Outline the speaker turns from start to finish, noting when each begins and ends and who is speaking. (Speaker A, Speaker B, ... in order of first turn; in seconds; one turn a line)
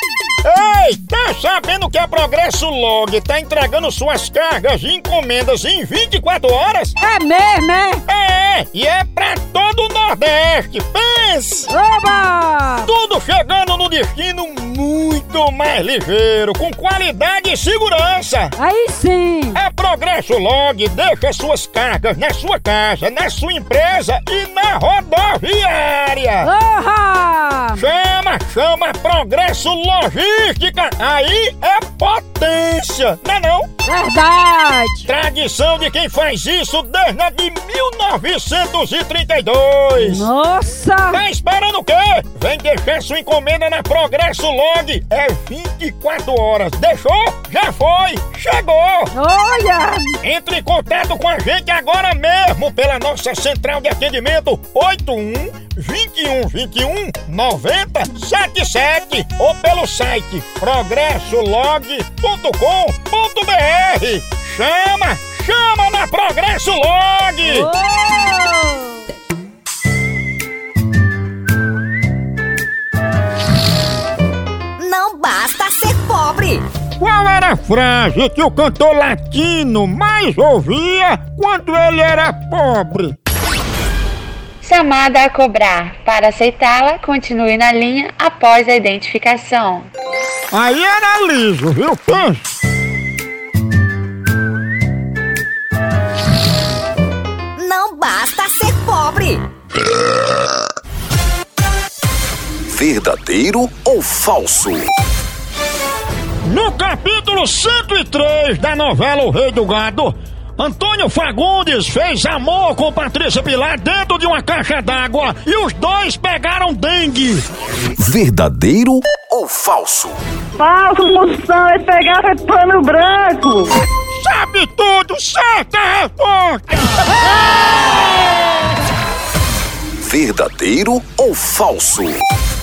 Speaker A: 0.4-6.9
Speaker B: 7.0-8.0
Speaker A: 8.1-11.7
Speaker B: 11.7-12.9
Speaker A: 12.8-18.5
Speaker B: 18.6-19.6
Speaker A: 19.6-26.5
Speaker B: 26.4-27.8
Speaker A: 27.8-33.7
Speaker B: 33.9-35.1
Speaker A: 35.1-40.3
Speaker B: 40.0-41.2
Speaker A: 41.1-49.1
Speaker B: 49.1-50.1
Speaker A: 50.2-67.7
Speaker B: 67.4-69.0
Speaker C: 74.8-76.7
Speaker A: 77.0-83.1
Speaker D: 84.6-89.9
Speaker A: 90.5-92.4
Speaker C: 97.5-99.5
Speaker E: 102.7-104.9
Speaker A: 106.4-117.4
Speaker E: 118.0-120.2
Speaker F: 120.6-123.7
Speaker A: 124.2-126.9
Speaker E: 130.0-132.2